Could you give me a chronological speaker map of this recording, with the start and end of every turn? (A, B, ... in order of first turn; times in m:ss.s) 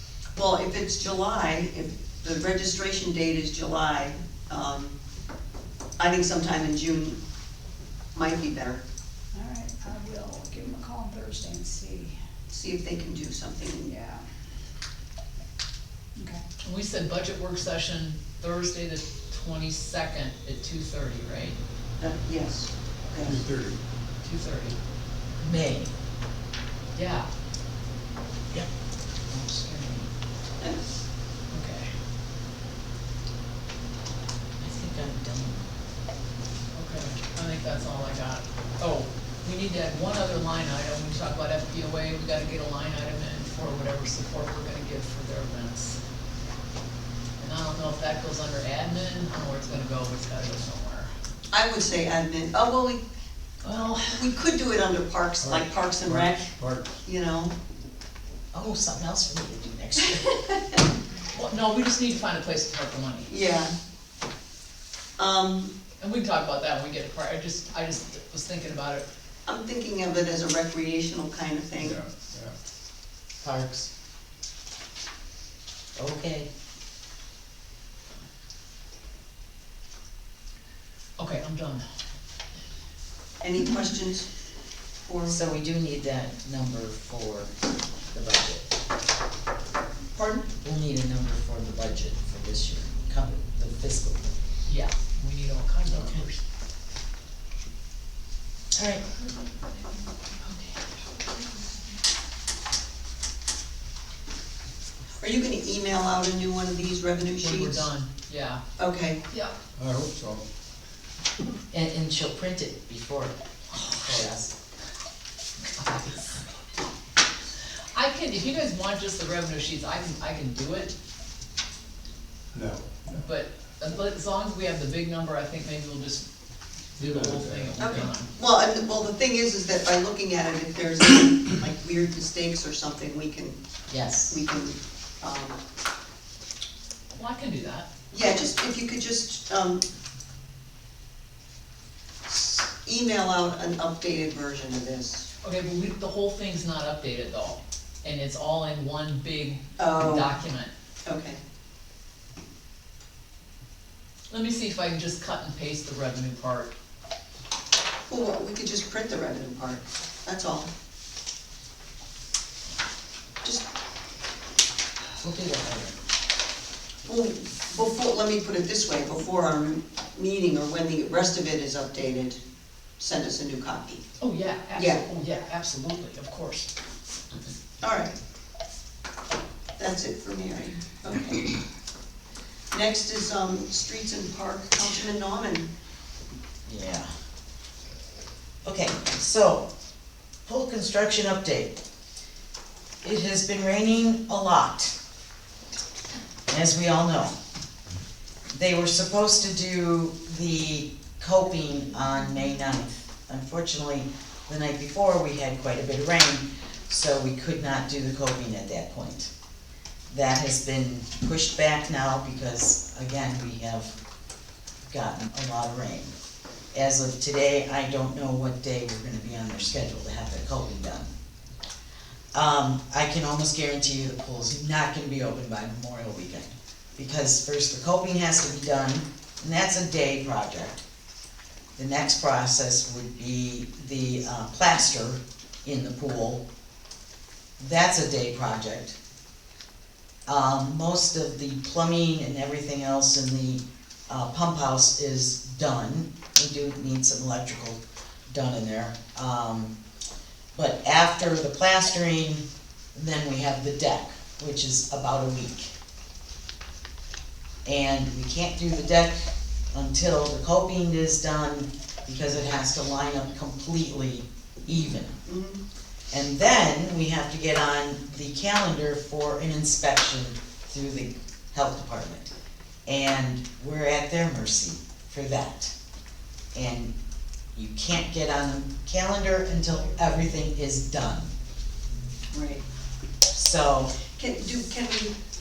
0:00.4-0:04.9 A
0:06.0-0:07.2 A
0:08.1-0:08.8 A
0:09.3-0:12.2 B
0:12.5-0:13.9 A
0:13.8-0:14.2 B
0:16.2-0:16.4 B
0:16.6-0:21.6 C
0:22.0-0:23.4 A
0:23.2-0:23.8 D
0:24.2-0:24.8 C
0:25.4-0:25.9 E
0:26.9-0:27.3 C
0:29.3-0:30.1 E
0:31.5-0:31.9 C
0:34.6-0:35.7 E
0:36.7-0:46.0 C
0:47.4-0:51.1 C
0:51.5-0:53.0 A
0:53.6-0:54.3 C
0:54.1-0:57.5 A
0:55.4-0:57.0 D
0:58.5-1:00.5 E
1:01.3-1:03.3 C
1:03.3-1:03.7 A
1:05.2-1:05.7 A
1:06.0-1:09.1 C
1:09.4-1:12.0 A
1:11.8-1:12.5 D
1:13.4-1:13.9 E
1:15.9-1:16.5 E
1:21.2-1:21.8 C
1:23.4-1:24.3 A
1:25.0-1:25.4 A
1:25.3-1:27.5 E
1:28.1-1:28.7 E
1:30.2-1:30.4 C
1:30.6-1:34.3 E
1:34.6-1:36.4 C
1:35.9-1:36.2 E
1:38.7-1:39.0 E
1:40.4-1:41.7 C
1:45.2-1:47.9 A
1:47.4-1:48.6 C
1:48.8-1:49.2 A
1:49.8-1:50.4 D
1:51.7-1:54.5 E
1:53.8-1:54.2 C
1:55.8-1:56.4 C
1:57.9-2:00.9 C
2:02.5-2:03.2 D
2:03.2-2:06.3 C
2:06.9-2:08.3 C
2:07.0-2:08.0 D
2:07.8-2:13.6 A
2:13.9-2:14.3 E
2:14.3-2:15.6 A
2:17.1-2:17.9 C
2:18.1-2:19.8 A
2:22.3-2:25.3 A
2:25.4-2:30.7 C
2:29.8-2:30.3 A
2:31.0-2:31.4 A
2:34.3-2:36.7 C
2:38.1-2:40.7 A
2:45.2-2:46.0 E
2:47.0-2:52.4 A
2:53.0-2:54.0 A
2:54.2-2:56.7 C
2:54.7-2:55.0 A
2:57.8-2:58.2 A
2:59.8-3:01.6 A
3:02.7-3:05.7 A
3:06.6-3:07.1 E
3:08.6-3:09.7 E
3:10.4-3:11.8 E
3:13.0-3:15.0 E
3:16.5-3:17.4 E
3:18.5-3:29.3 E
3:30.1-3:33.9 E
3:34.9-3:36.1 E
3:36.7-3:41.1 E
3:42.3-3:50.8 E
3:51.8-3:56.4 E
3:57.6-3:59.0 E
4:00.3-4:09.7 E
4:10.5-4:15.7 E
4:17.6-4:25.2 E
4:25.2-4:25.6 A
4:26.1-4:32.3 E
4:32.9-4:35.7 E
4:36.5-4:36.9 E
4:37.5-4:41.3 E
4:42.3-4:42.6 A
4:43.3-4:44.0 E
4:44.1-4:45.1 A